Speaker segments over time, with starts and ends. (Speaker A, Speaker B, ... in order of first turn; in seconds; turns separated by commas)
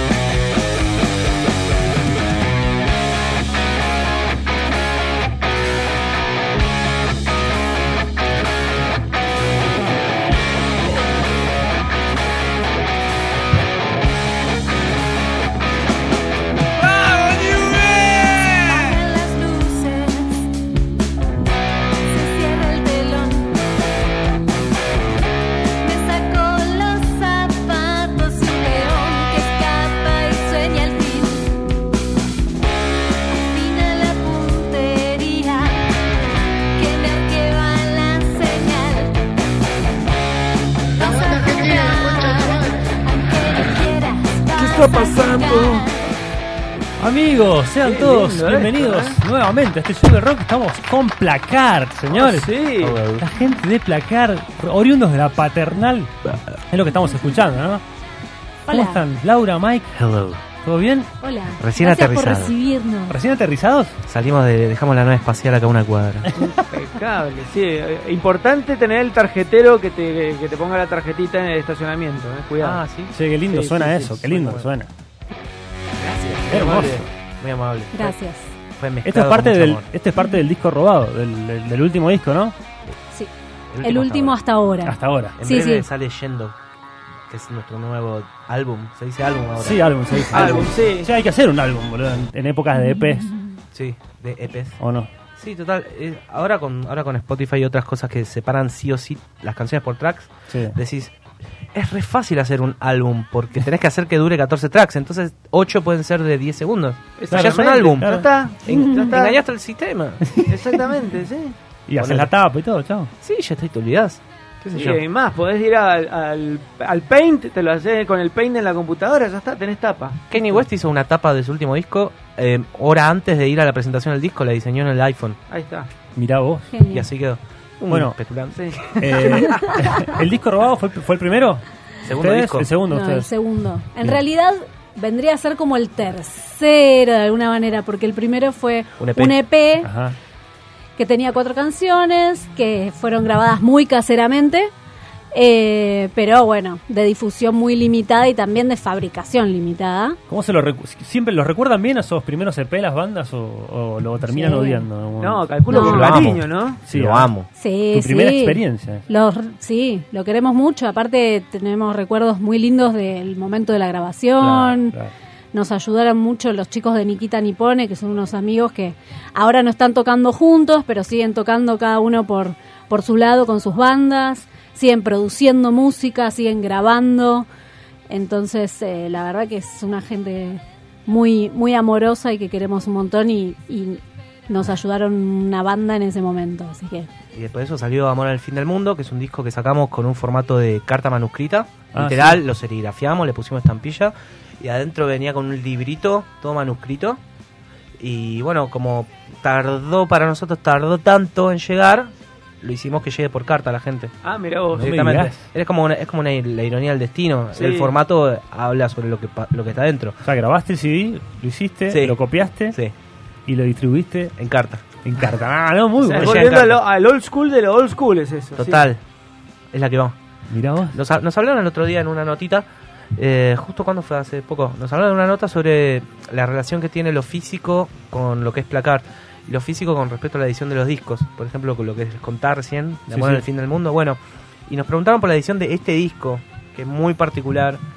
Speaker A: 17.3-20.5, Speaker A: 22.0-23.6, Speaker A: 25.8-31.6, Speaker A: 33.3-35.9, Speaker A: 36.7-39.2, Speaker A: 40.9-46.0, Speaker B: 44.5-45.9, Speaker C: 47.0-56.1, Speaker D: 47.8-49.2, Speaker D: 52.1-53.0, Speaker B: 52.9-53.2, Speaker C: 56.7-57.8, Speaker C: 58.7-59.9, Speaker A: 58.7-59.0, Speaker B: 59.9-60.4, Speaker C: 60.6-61.1, Speaker A: 61.2-63.2, Speaker B: 61.6-62.5, Speaker C: 63.1-63.9, Speaker B: 64.0-66.3, Speaker D: 66.4-72.8, Speaker B: 72.6-73.1, Speaker C: 73.1-74.9, Speaker D: 73.5-74.6, Speaker B: 76.0-78.1, Speaker C: 76.5-77.0, Speaker A: 77.9-78.5, Speaker B: 78.8-79.9, Speaker C: 79.0-82.5, Speaker B: 83.7-84.4, Speaker A: 83.8-85.8, Speaker C: 84.8-85.3, Speaker B: 85.4-86.5, Speaker B: 87.3-90.6, Speaker C: 89.6-93.3, Speaker D: 90.3-91.1, Speaker B: 93.7-94.8, Speaker C: 94.8-95.1, Speaker B: 95.4-101.1, Speaker B: 101.7-108.1, Speaker D: 107.2-109.4, Speaker C: 107.3-108.3, Speaker B: 108.6-110.2, Speaker A: 108.7-109.0, Speaker C: 110.2-110.6, Speaker D: 110.4-111.5, Speaker C: 111.9-113.1, Speaker B: 112.0-112.3, Speaker B: 113.2-115.0, Speaker D: 114.7-120.2, Speaker B: 120.3-125.4, Speaker D: 125.5-125.9, Speaker C: 126.1-126.7, Speaker A: 126.7-127.1, Speaker B: 126.9-128.6, Speaker C: 127.9-128.2, Speaker D: 128.5-129.7, Speaker C: 129.0-131.6, Speaker B: 132.0-132.7, Speaker C: 132.2-133.3, Speaker A: 132.9-139.9, Speaker B: 139.0-139.4, Speaker C: 139.8-140.2, Speaker A: 140.9-144.7, Speaker A: 145.3-150.2, Speaker C: 150.3-156.2, Speaker A: 154.3-154.8, Speaker D: 155.2-156.8, Speaker A: 155.7-156.1, Speaker B: 155.8-157.5, Speaker C: 156.9-157.3, Speaker A: 157.6-164.9, Speaker C: 157.9-159.0, Speaker C: 164.4-165.1, Speaker A: 165.5-177.4, Speaker A: 178.1-187.1, Speaker B: 187.3-197.2, Speaker C: 191.9-192.4, Speaker B: 198.0-202.1, Speaker B: 202.6-204.1, Speaker D: 204.2-204.9, Speaker B: 204.7-210.2, Speaker C: 204.8-205.5, Speaker D: 207.5-207.9, Speaker C: 210.2-212.8, Speaker B: 211.9-212.9, Speaker C: 213.5-214.3, Speaker B: 214.4-214.8, Speaker C: 215.0-216.5, Speaker D: 216.0-218.8, Speaker B: 216.2-216.8, Speaker B: 218.6-219.0, Speaker B: 219.7-220.2, Speaker C: 220.5-221.0, Speaker B: 220.9-237.8, Speaker C: 233.1-233.4